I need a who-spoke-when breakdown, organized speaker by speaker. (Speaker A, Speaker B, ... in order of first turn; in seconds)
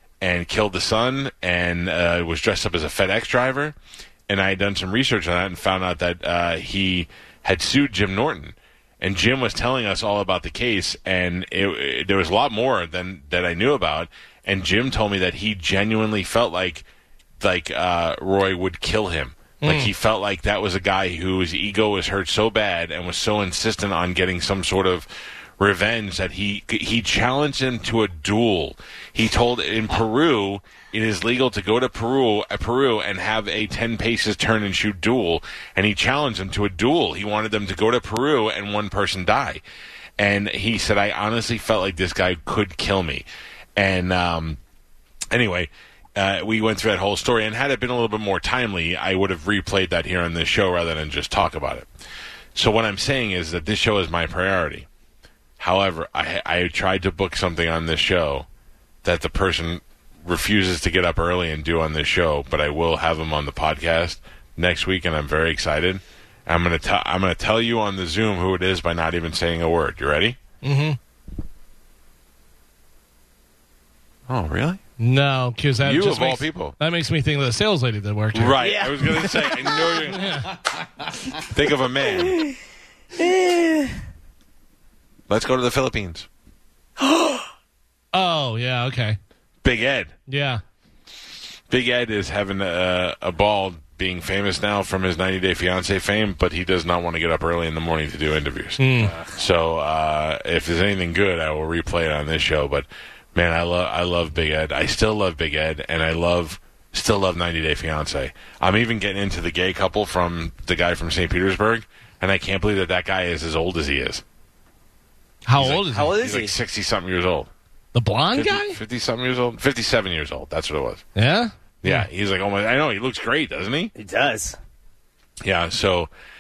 Speaker A: 0.2-3.8, 4.3-16.9, 17.4-25.1, 25.6-39.6, 40.2-43.3, 43.8-44.6, 45.3-51.9, 52.5-54.9, 55.6-58.5, 59.0-70.4, 74.3-74.8, 75.8-76.8, 78.3-80.4, 81.4-82.4, 85.3-86.3, 89.6-90.2, 91.7-98.8, 99.4-114.2, 115.6-117.5, 118.3-121.0, 121.8-123.9, 125.4-126.1
Speaker B: 19.6-19.9, 70.6-71.0, 75.0-78.6, 80.0-80.5, 88.1-89.2, 90.3-90.6, 98.8-99.1, 115.5-116.2, 117.9-118.8, 121.2-122.1
Speaker C: 78.6-79.9, 83.2-83.9, 87.0-87.4, 99.0-99.3, 115.9-116.5, 124.0-124.6